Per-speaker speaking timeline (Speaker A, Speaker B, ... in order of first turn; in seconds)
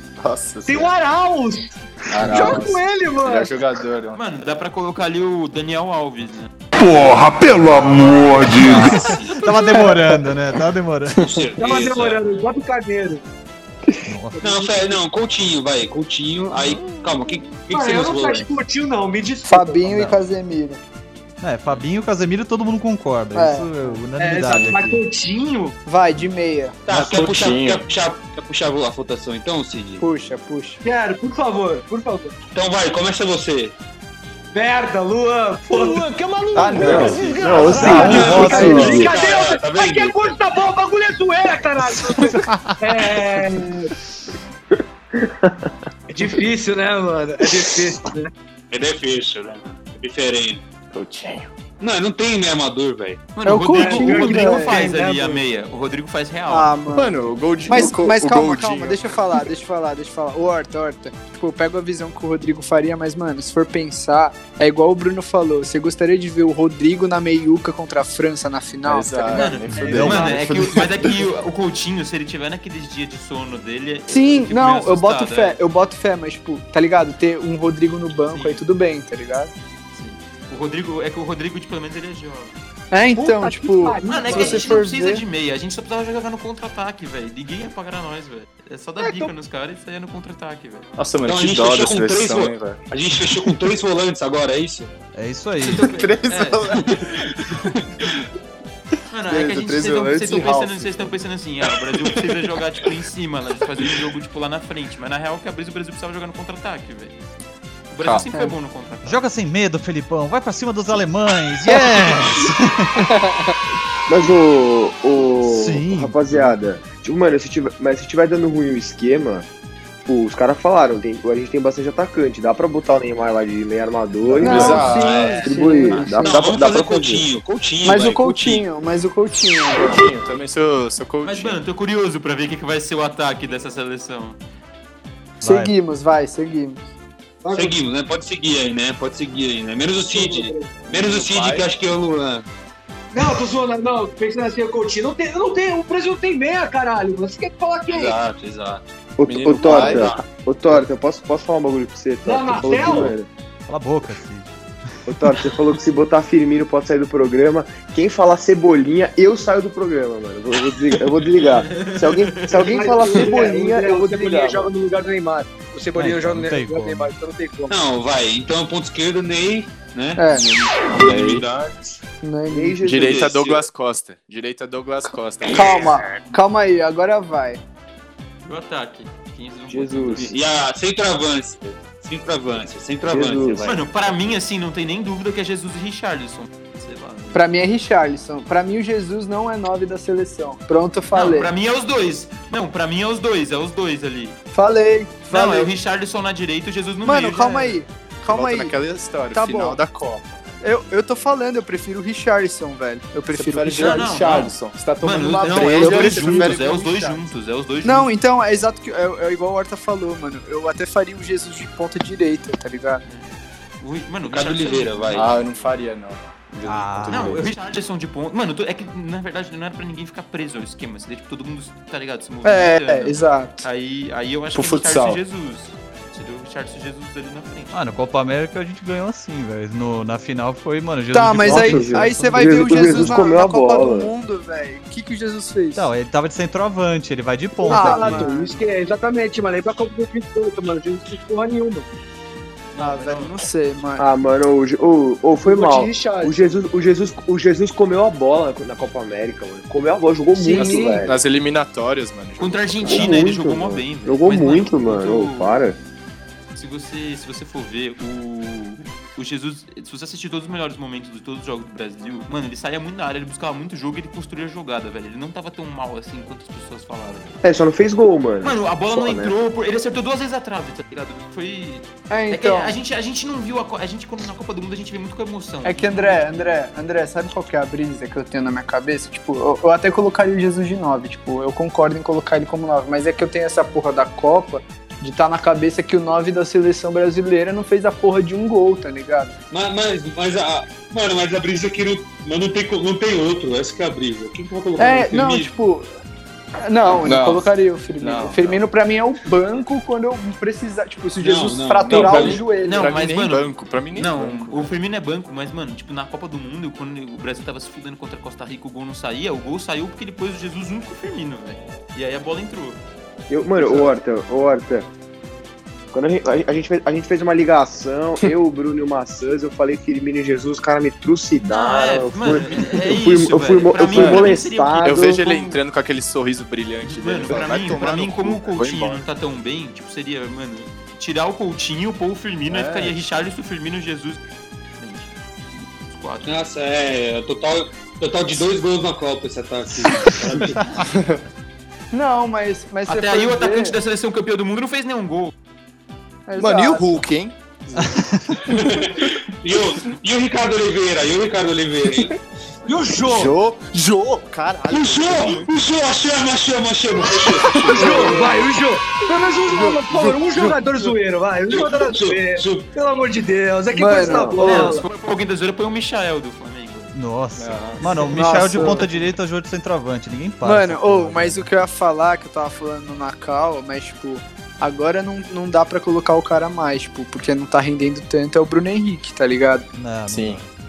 Speaker A: 0.2-1.0, 2.1-4.2, 26.9-27.9, 36.6-38.3, 50.9-51.5, 56.9-59.5, 68.8-71.2, 91.0-92.8, 95.7-97.5, 99.3-101.2, 124.4-125.4, 129.7-131.6, 140.9-141.7, 149.3-150.1, 171.0-171.5, 172.8-176.0, 198.3-200.6, 203.3-207.3, 215.1-217.6, 224.5-225.2, 250.6-253.2, 297.0-297.5, 298.0-298.7, 301.8-304.7, 313.5-313.9, 323.9-329.0, 332.5-332.9, 340.8-341.2, 346.4-349.1, 353.0-355.5, 357.2-357.9, 367.4-367.8, 380.1-380.4
Speaker B: 0.7-3.6, 11.6-13.2, 14.3-15.0, 17.7-19.9, 24.2-25.8, 30.8-32.4, 34.5-43.9, 46.1-48.3, 53.7-55.4, 83.2-84.8, 137.4-137.8, 140.0-140.8, 143.1-148.2, 152.2-153.2, 162.6-167.8, 237.6-241.9, 245.4-246.5, 250.3-251.1, 352.7-353.4, 357.7-364.9
Speaker C: 4.1-6.5, 53.4-56.8, 69.3-75.6, 78.2-78.6, 79.9-82.6, 84.0-90.9, 95.6-97.1, 99.1-107.2, 107.9-109.2, 125.9-126.6, 131.2-134.4, 161.7-162.9, 178.4-180.3, 183.6-187.4, 191.1-194.4, 195.3-197.8, 203.8-208.1, 213.0-215.8, 217.1-227.9, 242.7-243.4, 252.4-255.6, 256.6-267.4, 268.4-276.6, 302.5-312.8, 321.5-325.6, 326.8-334.2, 334.8-336.3, 342.9-345.3, 364.4-366.9, 367.8-369.1
Speaker D: 6.8-9.1
Speaker E: 8.5-9.9, 11.2-12.4, 14.4-18.6, 26.9-30.1, 32.5-33.8, 38.1-40.4, 48.7-50.6, 51.8-53.2, 91.3-94.9, 124.6-128.7, 137.5-142.5, 147.9-148.9, 149.5-150.2, 167.7-171.9, 172.9-173.7, 180.1-184.3, 214.3-215.4, 289.5-295.5, 301.2-302.4, 336.2-340.9, 348.5-352.2, 354.7-357.9, 361.5-362.7
Speaker F: 8.6-11.3, 14.1-14.3, 16.5-17.4, 19.9-20.2, 21.4-25.0, 37.8-39.1, 42.3-42.6, 69.8-70.4, 95.2-95.9, 109.0-113.1, 115.4-116.6, 135.4-135.7, 153.7-154.5, 155.1-155.5, 165.9-167.1, 216.7-217.4, 227.7-233.2, 235.8-238.3, 347.8-348.3, 366.9-371.5, 379.7-380.5
Speaker G: 9.8-10.1, 19.4-20.8, 23.3-23.7, 25.9-26.8, 30.0-30.8, 35.7-37.0, 37.8-39.0, 53.4-54.8, 56.5-69.5, 74.1-79.5, 82.9-85.2, 124.4-126.2, 127.8-130.1, 135.4-136.9, 170.2-170.4, 172.2-172.8, 175.5-177.6, 187.3-191.5, 194.5-195.7, 197.0-198.8, 199.3-199.8, 200.6-204.1, 205.6-206.5, 207.8-213.0, 222.4-223.7, 231.1-235.9, 237.7-238.5, 242.8-244.1, 272.1-272.8, 275.6-289.4, 294.8-295.9, 296.6-302.9, 341.9-343.8, 346.3-347.1, 357.8-358.4, 363.7-364.7, 368.1-368.9, 370.4-379.7
Speaker H: 36.6-39.1, 45.1-45.7, 114.1-119.5, 120.0-127.3, 149.2-153.3, 155.1-164.7, 172.5-173.4, 179.7-180.3, 183.1-183.8, 231.4-234.1, 238.0-238.5, 244.0-251.2, 252.8-255.8, 267.4-269.3, 313.3-314.9, 315.9-325.2, 357.8-358.3, 363.9-364.4